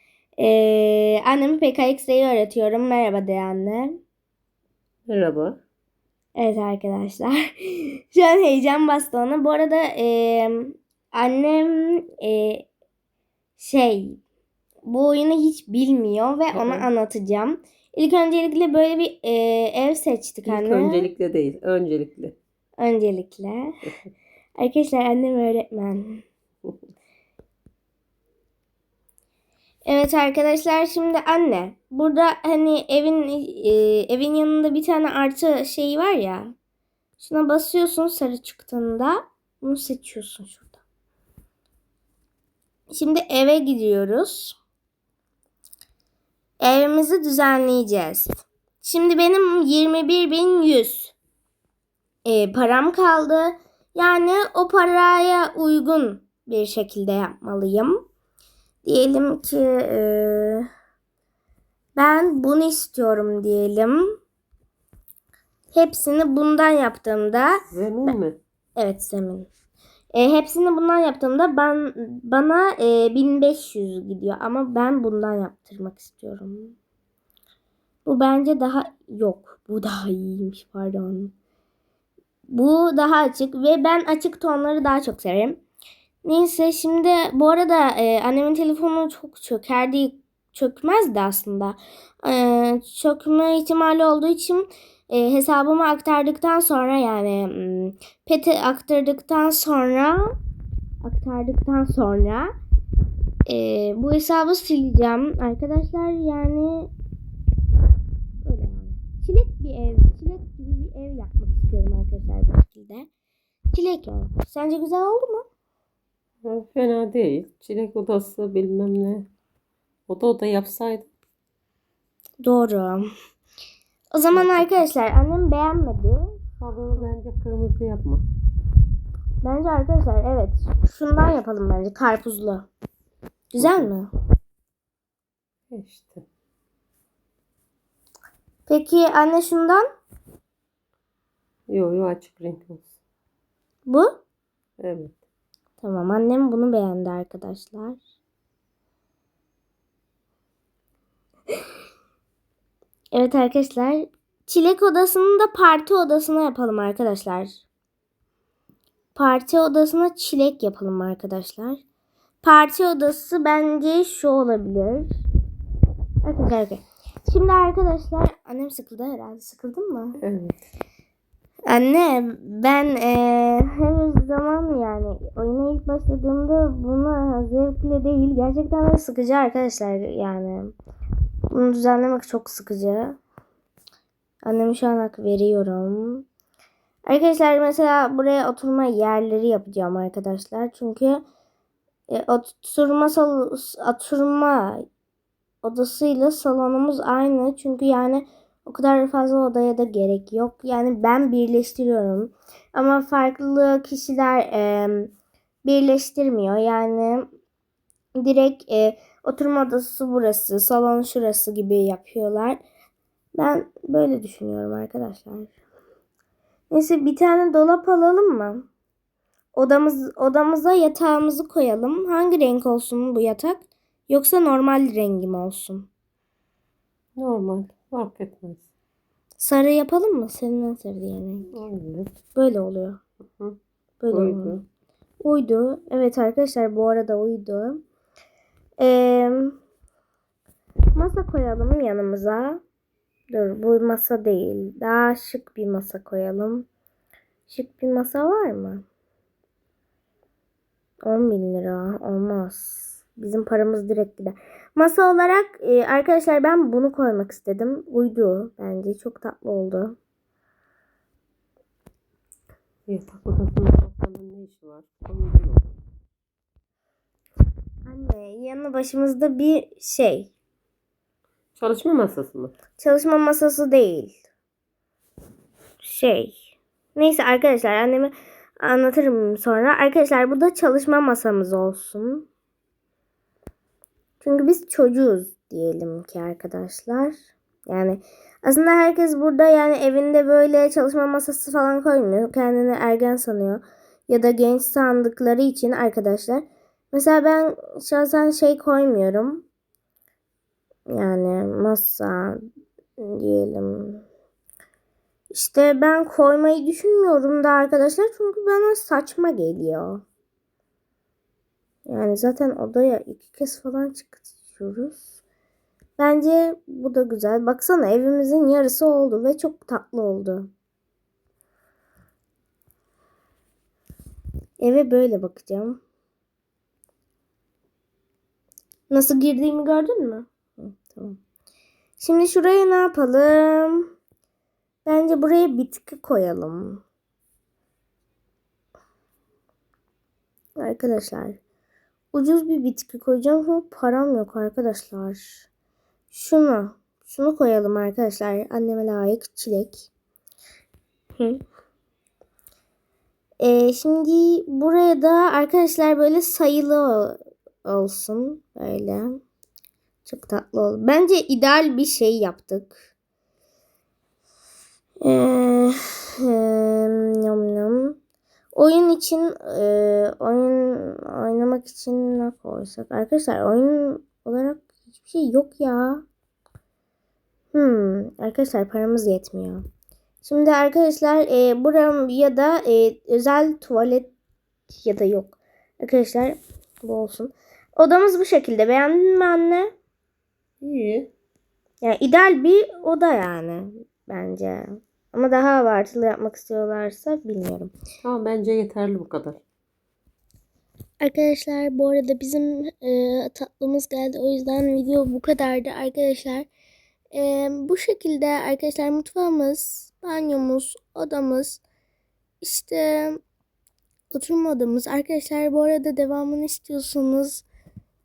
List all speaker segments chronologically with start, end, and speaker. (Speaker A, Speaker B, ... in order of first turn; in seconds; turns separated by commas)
Speaker A: 0.4-4.0, Speaker B: 5.1-5.6, Speaker A: 6.3-12.7, Speaker A: 13.6-14.2, Speaker A: 14.9-21.0, Speaker B: 16.5-16.9, Speaker B: 20.5-22.4, Speaker A: 22.8-23.8, Speaker A: 24.6-26.2, Speaker A: 29.9-36.5, Speaker A: 37.2-40.8, Speaker A: 42.9-44.6, Speaker A: 46.6-51.1, Speaker A: 52.2-58.0, Speaker A: 58.8-60.7, Speaker A: 62.0-64.2, Speaker A: 65.7-68.2, Speaker B: 67.7-68.4, Speaker A: 68.8-69.5, Speaker A: 70.1-76.7, Speaker A: 78.0-81.3, Speaker A: 82.5-85.6, Speaker A: 86.2-100.3, Speaker A: 101.0-102.5, Speaker A: 103.5-106.9, Speaker A: 108.4-113.1, Speaker A: 113.7-115.5, Speaker B: 116.4-119.3, Speaker B: 120.1-121.1, Speaker A: 122.4-123.1, Speaker A: 124.1-126.3, Speaker B: 124.3-124.8, Speaker B: 126.6-128.2, Speaker A: 129.4-132.7, Speaker A: 133.5-134.1, Speaker B: 133.6-133.9, Speaker B: 135.7-136.2, Speaker A: 138.7-139.8, Speaker B: 141.7-142.9, Speaker A: 143.9-144.2, Speaker B: 144.8-145.1, Speaker A: 145.8-148.0, Speaker A: 153.1-157.6, Speaker A: 159.2-161.8, Speaker A: 162.4-165.1, Speaker A: 166.2-170.2, Speaker B: 170.2-170.6, Speaker A: 171.7-180.7, Speaker A: 181.5-183.2, Speaker A: 184.4-186.3, Speaker A: 187.1-191.2, Speaker A: 192.1-194.8, Speaker A: 195.6-205.1, Speaker A: 205.7-207.3, Speaker A: 208.2-212.6, Speaker A: 213.3-215.5, Speaker A: 216.7-218.7, Speaker A: 219.5-225.9, Speaker B: 227.2-228.7, Speaker A: 229.4-231.5, Speaker B: 231.5-232.1, Speaker A: 232.3-233.0, Speaker A: 234.0-234.6, Speaker B: 234.1-234.6, Speaker A: 235.2-237.8, Speaker A: 238.8-239.6, Speaker A: 240.9-242.6, Speaker A: 243.3-246.7, Speaker A: 247.5-248.8, Speaker A: 251.1-260.0, Speaker B: 262.9-265.7, Speaker A: 267.9-270.3, Speaker B: 271.6-272.5, Speaker A: 272.8-274.2, Speaker A: 275.8-276.4, Speaker A: 277.0-282.3, Speaker A: 284.2-287.1, Speaker A: 287.7-299.4, Speaker A: 300.9-302.4, Speaker A: 303.0-304.1, Speaker A: 305.3-310.0, Speaker A: 311.9-315.0, Speaker A: 316.0-320.5, Speaker A: 324.6-325.8, Speaker A: 328.9-331.2, Speaker A: 332.0-333.9, Speaker A: 334.9-336.8, Speaker A: 340.6-341.4, Speaker A: 342.1-345.5, Speaker A: 346.1-349.9, Speaker A: 353.4-359.2, Speaker A: 360.1-362.8, Speaker A: 365.0-368.0, Speaker A: 368.5-376.0, Speaker A: 377.5-379.6, Speaker A: 380.2-384.1, Speaker A: 384.7-389.7, Speaker B: 390.6-391.1, Speaker A: 391.8-397.7, Speaker B: 398.0-399.4, Speaker A: 401.0-406.5, Speaker A: 407.1-411.6, Speaker A: 412.4-413.2, Speaker A: 414.1-417.4